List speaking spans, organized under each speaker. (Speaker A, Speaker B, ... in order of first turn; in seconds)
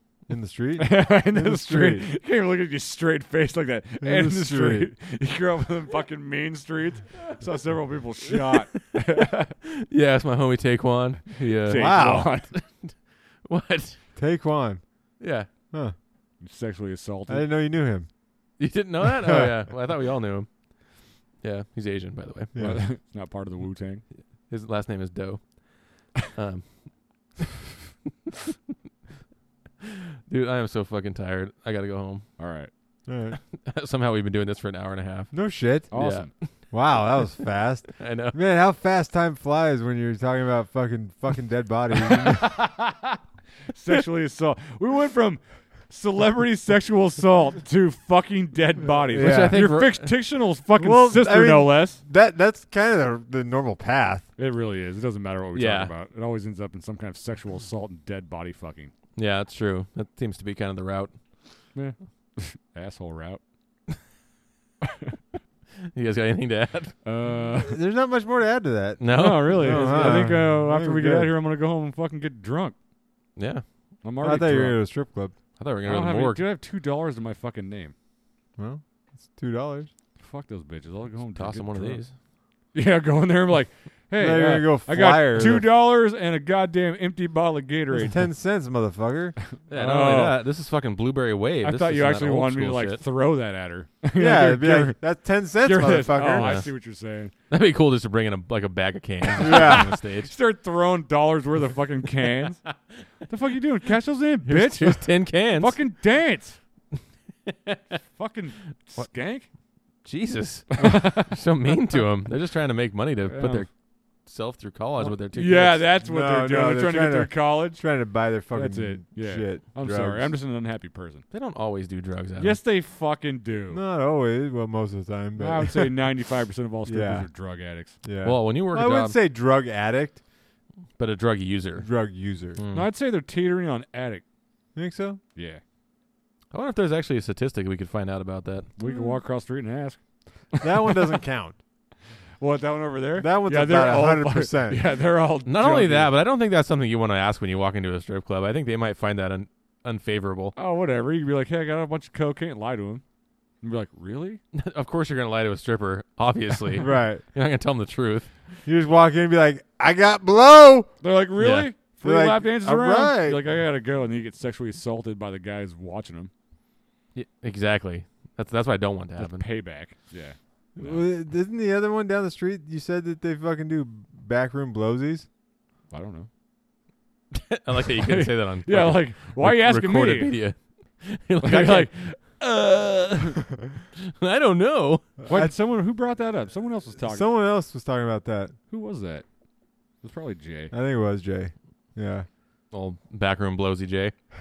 Speaker A: 0.3-2.1, 4.0-4.9, 11.7-12.3, 14.2-14.8, 17.3-18.1, 19.0-19.6, 22.5-22.9, 33.1-33.4, 35.3-35.9, 36.7-42.5, 49.0-49.6, 50.8-54.3, 67.7-71.3, 74.2-75.3, 78.6-79.9, 84.2-85.7, 87.9-89.4, 94.2-96.6, 99.4-99.9, 116.0-120.4, 123.7-126.0, 126.9-127.3, 128.0-130.2, 131.8-132.6, 134.8-135.2, 140.6-141.6, 143.2-144.9, 156.8-157.2, 158.7-160.9, 162.0-163.4, 170.8-175.3, 185.2-185.6, 187.0-188.6, 190.7-192.3
Speaker B: 0.8-9.5, 11.3-12.5, 16.4-17.5, 22.6-24.0, 32.4-32.7, 35.9-36.3, 42.2-43.2, 43.7-52.0, 54.4-58.9, 61.8-63.4, 64.8-65.1, 67.0-67.8, 69.1-72.8, 74.0-74.8, 75.9-77.9, 80.2-82.0, 82.7-88.3, 89.7-90.4, 91.6-95.0, 95.6-97.3, 99.4-102.6, 103.3-106.6, 108.1-109.5, 110.8-111.3, 113.3-113.7, 115.0-117.8, 118.5-121.2, 122.4-123.8, 125.4-128.0, 132.7-134.2, 135.3-135.6, 138.8-140.0, 140.8-141.1, 142.4-146.1, 150.6-153.0, 153.6-154.4, 161.0-166.3, 169.2-171.0, 175.9-176.3, 178.0-180.3, 181.4-181.9, 185.3-187.3, 188.7-189.2, 190.0-190.7
Speaker C: 8.3-14.0, 15.2-15.5, 18.6-20.5, 21.4-22.6, 24.5-26.9, 29.9-32.3, 33.5-36.5, 38.0-38.4, 49.2-50.2, 55.5-55.9, 59.2-61.1, 65.9-67.0, 69.0-70.3, 73.4-73.7, 75.6-76.4, 81.3-82.1, 89.7-93.0, 96.2-96.7, 97.5-100.3, 104.5-105.8, 107.5-107.8, 110.0-113.7, 114.2-115.9, 121.3-122.6, 128.2-129.2, 131.0-131.9, 132.6-132.9, 136.5-138.7, 145.5-150.5, 154.5-158.3, 161.4-161.7, 167.2-169.5, 177.3-185.1, 192.7-194.1